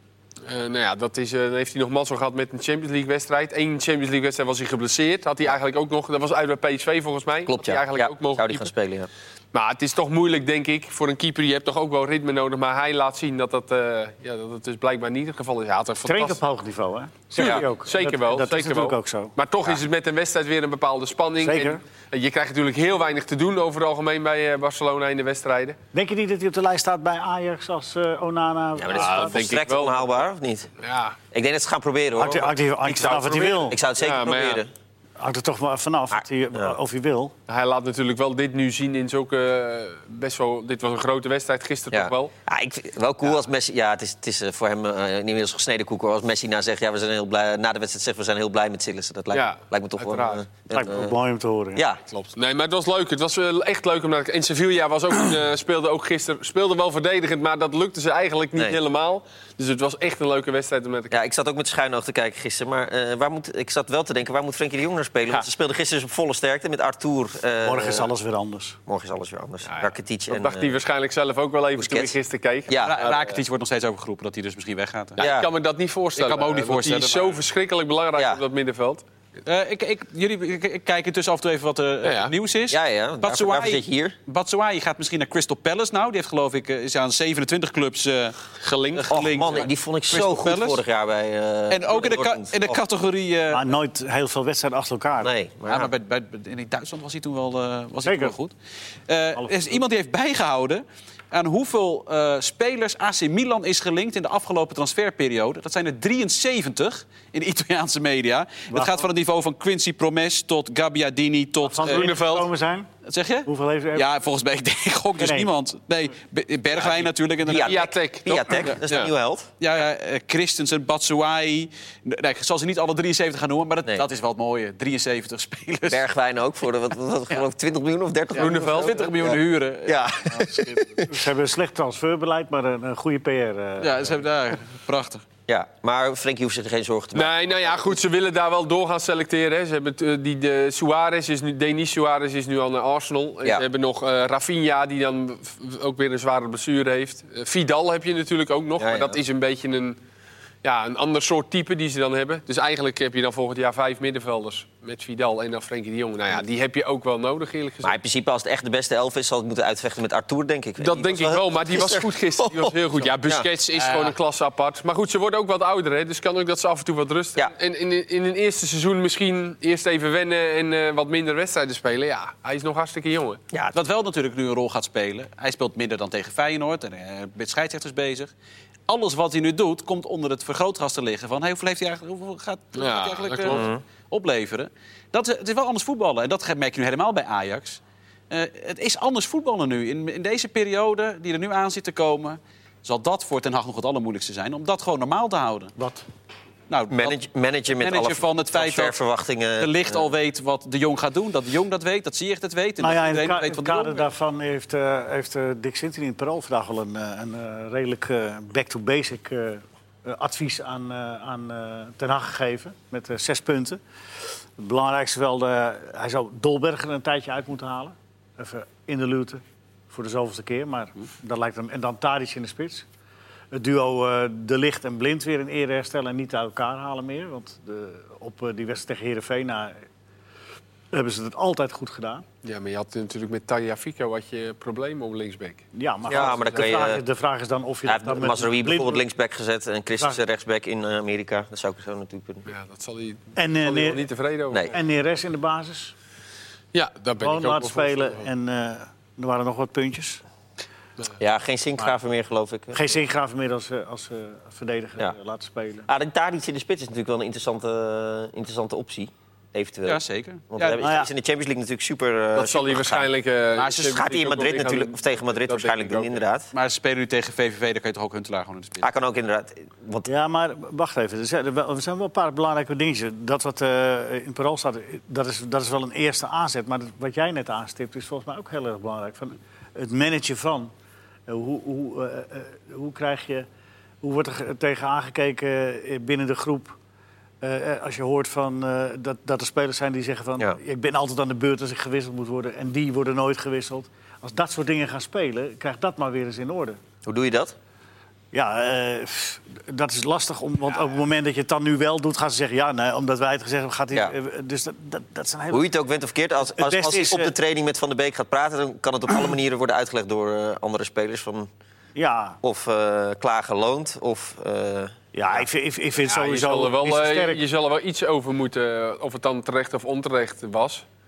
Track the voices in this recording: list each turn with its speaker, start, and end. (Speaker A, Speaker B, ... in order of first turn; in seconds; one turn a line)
Speaker A: 0.4-8.7
Speaker B: 7.5-9.1
Speaker A: 9.5-16.4
Speaker C: 16.1-19.3
Speaker A: 17.4-25.8
Speaker B: 17.4-17.6
Speaker C: 21.4-21.8
Speaker C: 25.9-29.5
Speaker B: 28.8-30.7
Speaker A: 28.9-30.1
Speaker A: 30.8-31.2
Speaker B: 31.3-32.5
Speaker C: 32.2-33.8
Speaker A: 32.9-34.6
Speaker B: 33.5-34.7
Speaker C: 35.2-37.3
Speaker A: 37.5-42.3
Speaker B: 41.9-51.1
Speaker A: 49.3-50.4
Speaker C: 50.7-51.8
Speaker B: 51.7-52.0
Speaker A: 52.1-61.1
Speaker B: 61.1-68.1
Speaker C: 67.6-68.8
Speaker B: 68.9-70.7
Speaker A: 69.7-73.3
Speaker B: 71.8-72.1
Speaker B: 72.7-73.0
Speaker D: 72.8-75.2
Speaker A: 75.2-79.0
Speaker B: 75.2-75.5
Speaker D: 76.2-77.4
Speaker D: 79.5-90.8
Speaker A: 82.0-82.3
Speaker B: 82.7-84.2
Speaker A: 88.6-89.1
Speaker B: 89.1-92.8
Speaker D: 91.7-93.6
Speaker C: 93.5-95.3
Speaker B: 95.2-95.9
Speaker D: 95.7-98.5
Speaker C: 98.0-98.3
Speaker D: 99.1-112.1
Speaker C: 99.4-99.8
Speaker C: 108.7-109.0
Speaker C: 111.6-112.9
Speaker A: 111.8-112.5
Speaker D: 113.0-117.8
Speaker C: 113.5-114.1
Speaker C: 115.2-115.5
Speaker B: 116.8-119.5
Speaker A: 117.6-119.1
Speaker D: 119.6-126.0
Speaker B: 125.9-131.1
Speaker A: 128.3-129.1
Speaker D: 128.4-131.0
Speaker C: 131.1-134.2
Speaker D: 133.8-135.2
Speaker B: 135.5-137.7
Speaker A: 137.1-150.0
Speaker B: 148.8-149.2
Speaker A: 150.6-157.9
Speaker B: 157.8-163.5
Speaker A: 160.8-173.4
Speaker D: 163.7-164.1
Speaker D: 173.7-178.3
Speaker D: 178.9-195.7
Speaker A: 182.7-183.7
Speaker B: 183.5-183.8
Speaker C: 195.8-196.1
Speaker D: 196.7-197.2
Speaker B: 196.9-200.0
Speaker D: 197.7-198.9
Speaker D: 199.6-204.1
Speaker C: 202.8-213.8
Speaker C: 214.6-222.8
Speaker C: 223.5-229.8
Speaker C: 230.9-232.2
Speaker A: 232.4-235.6
Speaker C: 235.7-239.0
Speaker B: 236.1-237.0
Speaker B: 237.9-242.5
Speaker A: 242.5-244.8
Speaker C: 243.3-244.0
Speaker C: 244.7-245.9
Speaker A: 246.7-248.3
Speaker C: 247.2-250.2
Speaker B: 251.2-252.9
Speaker C: 252.7-255.9
Speaker B: 255.8-263.1
Speaker D: 259.9-260.8
Speaker C: 260.8-261.1
Speaker A: 262.3-266.2
Speaker D: 263.5-264.0
Speaker B: 263.8-266.5
Speaker D: 266.5-268.9
Speaker B: 268.8-270.1
Speaker C: 270.1-280.7
Speaker C: 281.3-283.5
Speaker C: 284.0-286.7
Speaker C: 287.4-296.8
Speaker B: 297.0-297.5
Speaker C: 298.3-305.6
Speaker B: 305.5-311.5
Speaker C: 306.5-307.3
Speaker C: 311.9-312.4
Speaker B: 312.4-315.4
Speaker C: 315.1-317.4
Speaker A: 316.0-320.8